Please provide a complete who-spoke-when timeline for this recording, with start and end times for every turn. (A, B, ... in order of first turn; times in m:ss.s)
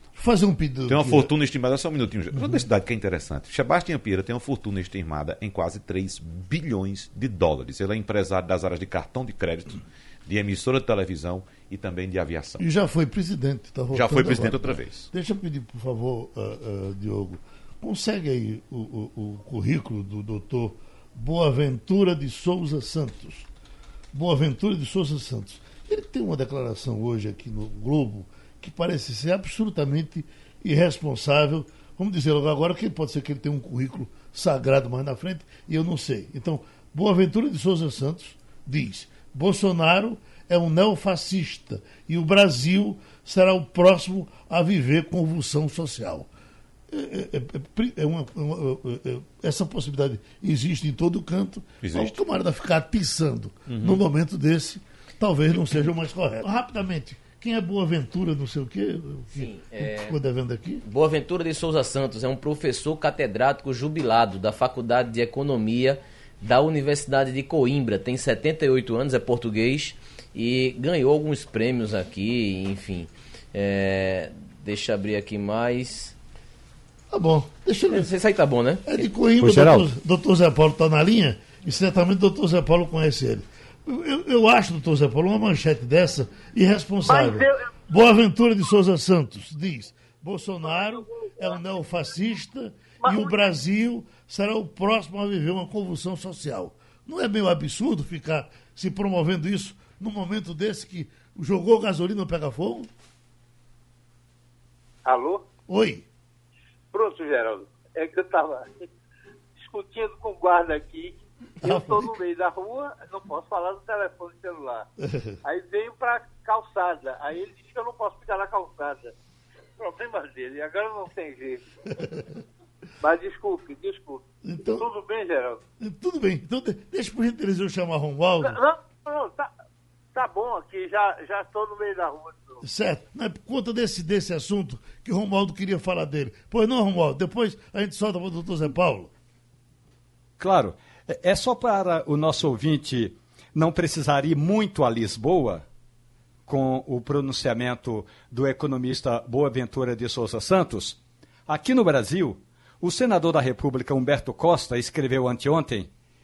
0:00.2-0:01.3 A
0:00.9-0:12.7 B
0:02.4-0:02.6 A
0:12.6-0:23.5 A
0:13.9-0:15.1 B
0:24.1-0:46.3 A
0:46.9-1:00.8 A
0:51.8-0:52.2 B
0:53.7-0:54.0 B
0:59.3-1:00.2 C
1:00.8-1:16.2 C
1:17.1-1:18.1 A
1:17.9-1:19.1 C
1:18.9-1:42.9 A
1:19.4-1:19.9 D
1:27.0-1:27.7 E
1:30.6-1:31.6 E
1:33.0-1:33.5 E
1:45.0-1:45.4 E
1:45.7-1:46.0 A
1:46.9-1:48.7 E
1:49.6-1:54.9 E
1:51.6-1:52.1 A
1:55.0-1:55.4 A
1:55.4-1:59.1 E
1:59.8-2:01.7 E
2:03.0-2:05.6 E
2:04.4-2:04.9 A
2:05.8-2:08.6 A
2:08.4-2:09.5 E
2:10.1-2:12.6 E
2:12.6-2:19.1 A
2:20.4-2:25.6 D
2:26.5-2:35.9 D